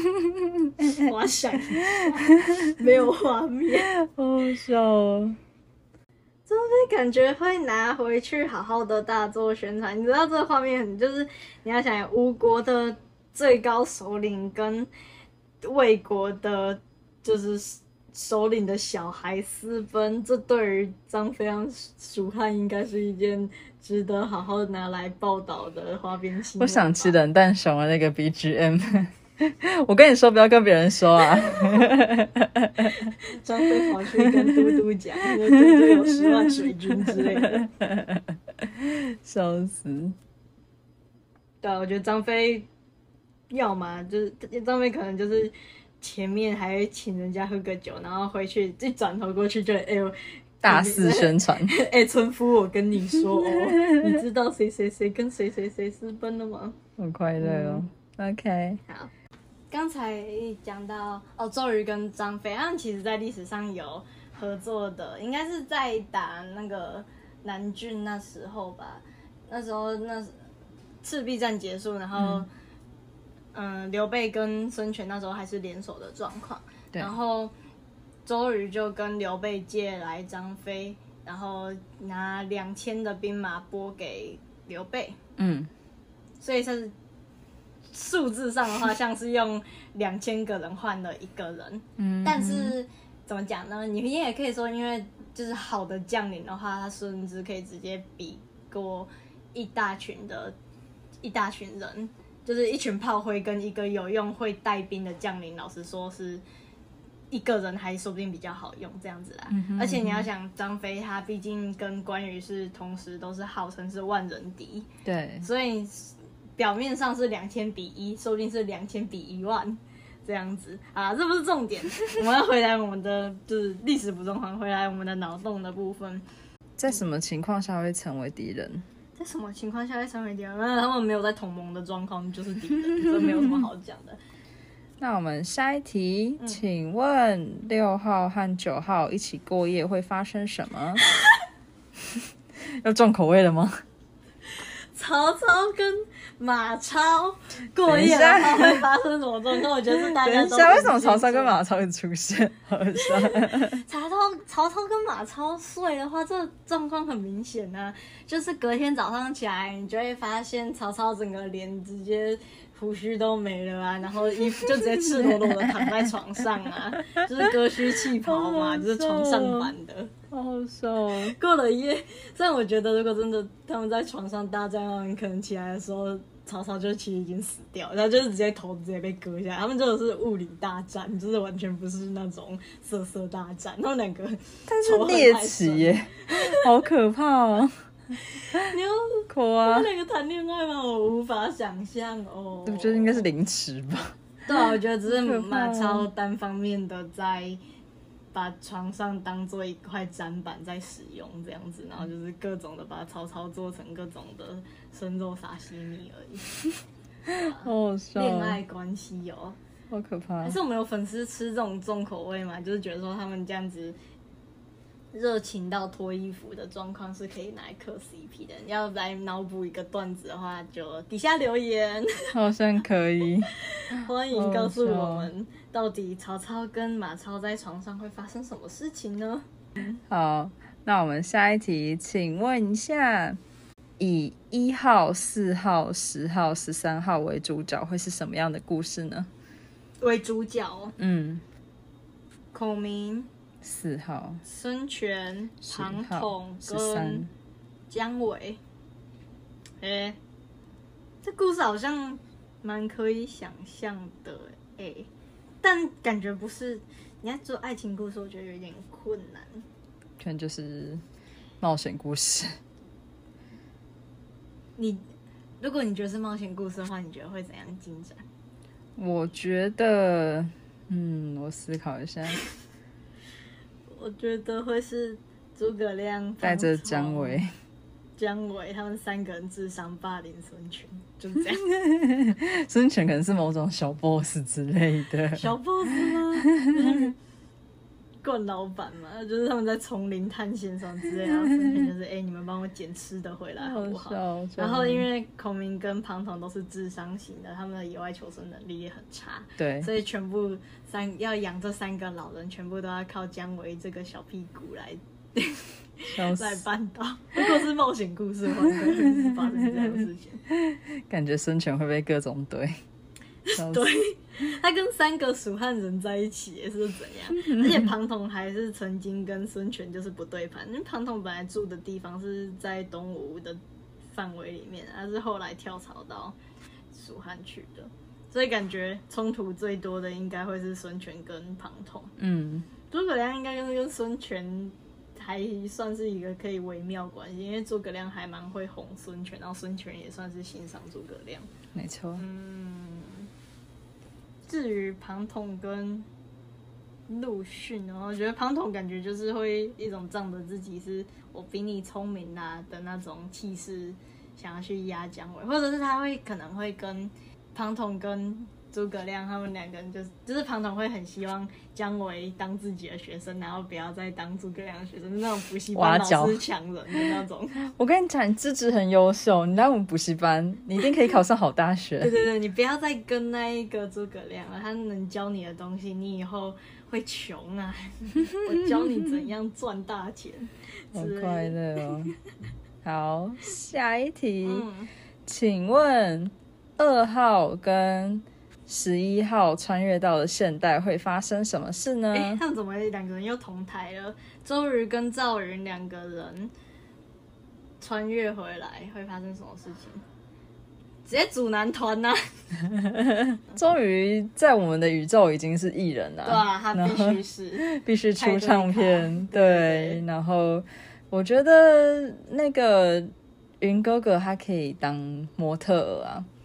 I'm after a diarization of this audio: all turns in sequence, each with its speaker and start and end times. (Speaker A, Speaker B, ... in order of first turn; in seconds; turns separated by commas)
Speaker A: 0.2-0.9, Speaker B: 0.8-3.9, Speaker A: 1.9-2.7, Speaker A: 3.9-5.4, Speaker B: 6.5-14.9, Speaker B: 15.6-27.1, Speaker A: 26.6-33.1, Speaker B: 31.5-31.9, Speaker B: 33.0-37.7, Speaker A: 33.8-40.1, Speaker B: 41.6-42.7, Speaker B: 43.5-56.8, Speaker A: 50.6-51.7, Speaker A: 53.3-54.2, Speaker A: 57.0-58.8, Speaker B: 57.4-57.8, Speaker B: 59.7-70.3, Speaker B: 71.0-72.5, Speaker A: 72.2-72.4, Speaker B: 73.5-77.5, Speaker B: 78.2-85.2, Speaker A: 85.4-85.7, Speaker B: 86.4-86.9, Speaker B: 87.9-100.5, Speaker A: 92.0-92.7, Speaker B: 101.2-106.4, Speaker B: 107.3-114.9, Speaker A: 109.5-110.3, Speaker A: 115.0-115.5, Speaker B: 115.4-126.2, Speaker A: 126.8-128.8, Speaker B: 129.2-134.2, Speaker A: 133.2-133.6, Speaker A: 135.0-141.0, Speaker A: 142.1-143.8, Speaker B: 144.9-151.6, Speaker A: 147.8-148.8, Speaker A: 149.9-153.8, Speaker B: 153.0-170.1, Speaker A: 164.5-165.9, Speaker A: 168.2-169.7, Speaker A: 170.3-171.3, Speaker B: 171.2-186.7, Speaker A: 184.7-187.7, Speaker B: 188.2-193.2, Speaker A: 189.3-189.9, Speaker A: 192.7-194.1, Speaker B: 194.4-197.6, Speaker A: 195.1-196.1, Speaker B: 198.3-206.5, Speaker A: 207.3-208.6, Speaker B: 207.3-209.6, Speaker A: 209.9-210.6, Speaker B: 210.4-214.0, Speaker B: 215.1-222.3, Speaker A: 222.3-225.3, Speaker B: 223.7-229.4, Speaker A: 230.1-233.4, Speaker A: 234.0-239.3, Speaker B: 240.0-240.9, Speaker A: 241.0-241.4, Speaker B: 242.5-243.3, Speaker A: 243.6-244.4, Speaker B: 244.4-247.2, Speaker A: 245.6-247.3, Speaker B: 247.9-248.6, Speaker B: 249.8-250.2, Speaker B: 251.2-255.1, Speaker B: 255.6-259.6, Speaker A: 260.2-261.0, Speaker A: 261.6-262.5, Speaker B: 264.8-265.0, Speaker B: 265.6-268.2, Speaker A: 269.0-272.4, Speaker B: 273.9-277.4, Speaker A: 276.4-277.5, Speaker B: 278.2-281.6, Speaker A: 281.5-285.5, Speaker B: 285.3-287.1, Speaker A: 286.0-287.1, Speaker B: 288.2-310.4, Speaker A: 291.2-291.8, Speaker A: 293.6-295.1, Speaker A: 299.6-299.9, Speaker A: 306.1-306.6, Speaker A: 308.8-310.0, Speaker A: 310.5-312.8, Speaker B: 313.4-323.6, Speaker A: 313.5-313.9, Speaker A: 317.3-317.9, Speaker B: 324.1-326.4, Speaker B: 326.9-332.1, Speaker A: 332.2-332.7, Speaker B: 332.9-341.5, Speaker A: 341.7-342.2, Speaker B: 342.2-343.3, Speaker B: 344.5-346.1, Speaker B: 347.1-367.6, Speaker A: 365.7-366.4, Speaker A: 367.6-372.1, Speaker B: 372.0-382.1, Speaker A: 380.9-382.1, Speaker A: 382.8-384.6, Speaker B: 384.4-384.9, Speaker A: 385.2-392.4, Speaker B: 392.1-396.5, Speaker B: 397.8-400.0, Speaker B: 401.1-402.3, Speaker A: 402.7-416.3, Speaker B: 406.2-407.6, Speaker B: 408.1-410.0